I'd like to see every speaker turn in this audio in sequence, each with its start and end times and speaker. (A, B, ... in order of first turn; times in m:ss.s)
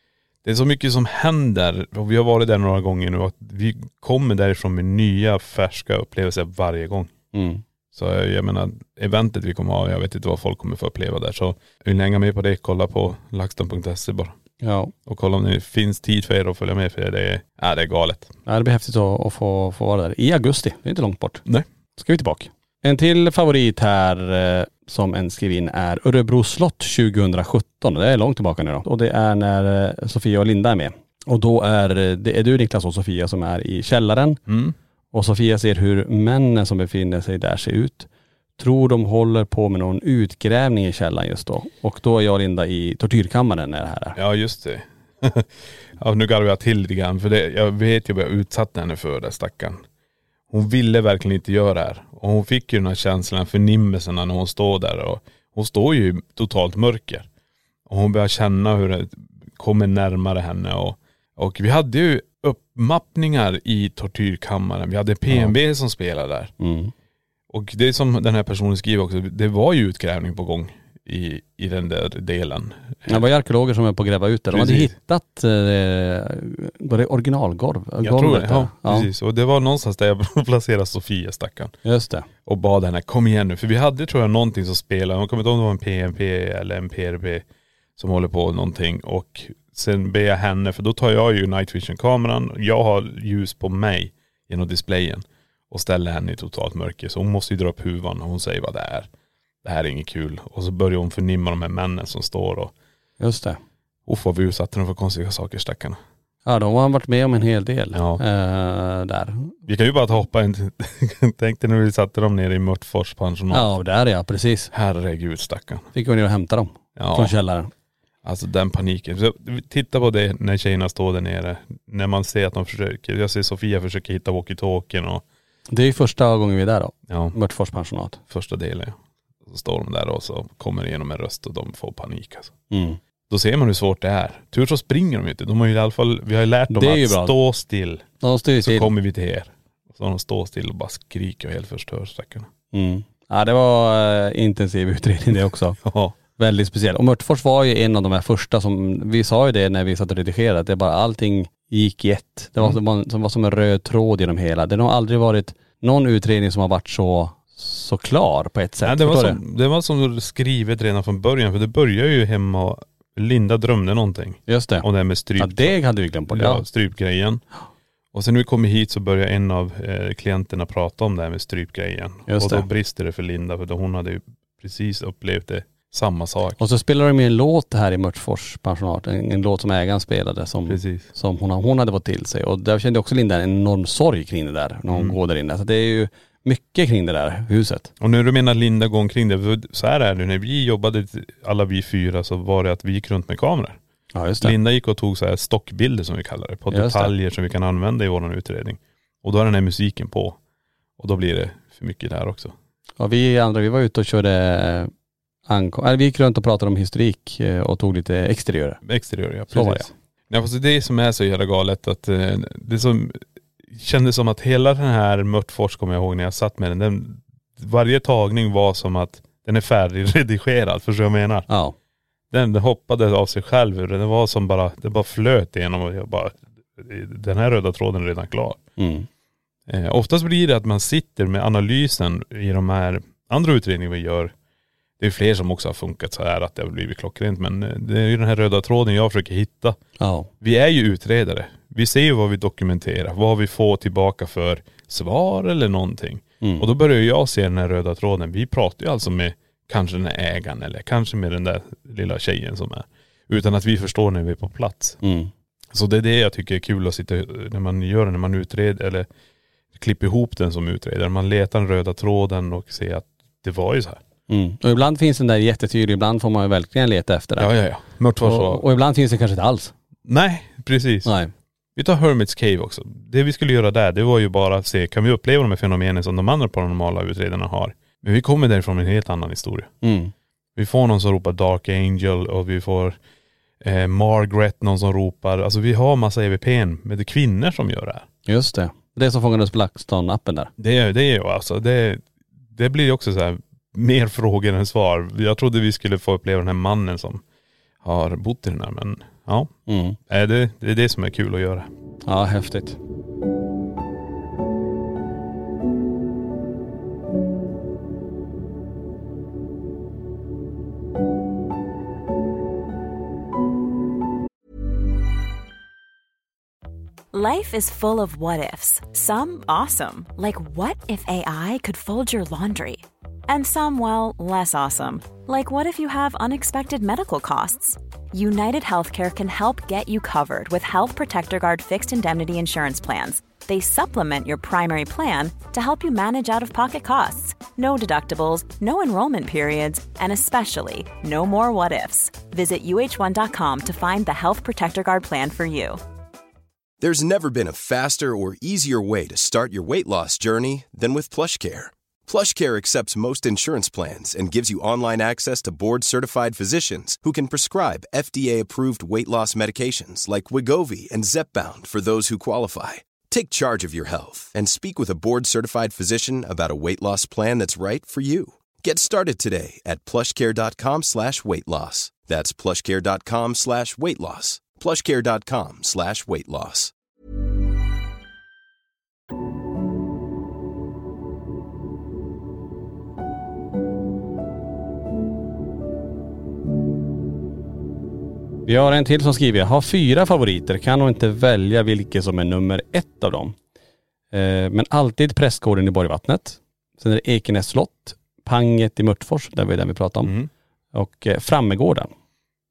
0:00.4-0:07.1 A
0:07.3-0:07.6 B
0:07.9-0:14.4 A
0:14.6-0:14.9 B
0:15.1-0:18.3 A
0:18.5-0:21.4 B
0:22.0-0:34.4 B
0:34.5-0:34.8 A
0:35.1-0:44.2 B
0:44.2-0:49.8 A
0:50.5-0:57.3 A
0:57.9-1:06.5 A
1:06.6-1:06.9 B
1:07.5-1:13.2 A
1:13.1-1:19.1 B
1:14.5-1:14.9 A
1:18.0-1:21.7 A
1:21.8-1:22.3 B
1:22.4-1:27.4 A
1:28.0-1:39.1 A
1:39.6-1:42.7 A
1:43.2-1:43.6 B
1:44.1-1:46.0 A
1:46.4-1:49.6 B
1:47.9-1:48.2 A
1:49.7-1:53.7 A
1:53.5-1:54.7 B
1:54.7-1:55.9 A
1:55.9-1:57.7 B
1:57.0-1:57.3 A
1:58.2-2:05.2 A
2:05.7-2:08.2 B
2:07.1-2:07.4 A
2:08.3-2:12.5 A
2:12.7-2:13.0 B
2:13.3-2:18.1 A
2:16.7-2:17.3 B
2:18.2-2:18.9 B
2:18.6-2:22.5 A
2:22.7-2:25.8 B
2:25.8-2:26.2 A
2:26.4-2:39.4 B
2:38.8-2:45.8 A
2:44.5-2:44.9 B
2:45.4-2:46.6 B
2:46.3-2:47.4 A
2:48.1-2:56.6 A
2:52.3-2:52.6 B
2:56.6-3:07.9 B
3:00.7-3:01.1 A
3:08.0-3:13.8 A
3:14.1-3:14.6 B
3:14.4-3:20.4 A
3:16.7-3:17.1 B
3:21.0-3:22.6 A
3:23.0-3:24.9 B
3:25.5-3:28.8 B
3:28.8-3:41.5 A
3:29.5-3:29.9 B
3:41.5-3:41.8 B
3:42.3-3:48.6 A
3:48.8-3:49.1 B
3:49.7-3:54.3 A
3:55.0-3:59.8 A
4:00.0-4:00.3 B
4:00.4-4:15.0 A
4:06.4-4:06.7 B
4:15.0-4:15.3 B
4:15.7-4:19.1 A
4:19.8-4:24.0 A
4:24.3-4:27.5 B
4:27.4-4:28.6 A
4:28.2-4:29.7 B
4:30.0-4:31.1 A
4:31.1-4:31.3 B
4:31.8-4:39.7 A
4:39.8-4:40.1 B
4:40.6-4:43.0 A
4:43.6-4:48.1 A
4:48.3-4:50.5 B
4:50.6-4:57.2 A
4:57.8-4:59.5 A
4:59.7-5:00.0 B
5:00.1-5:01.7 A
5:02.0-5:02.8 B
5:17.1-5:45.8 C
5:46.8-6:16.7 D
6:28.5-6:33.4 B
6:34.1-6:40.1 B
6:40.0-6:40.3 A
6:40.7-6:41.9 B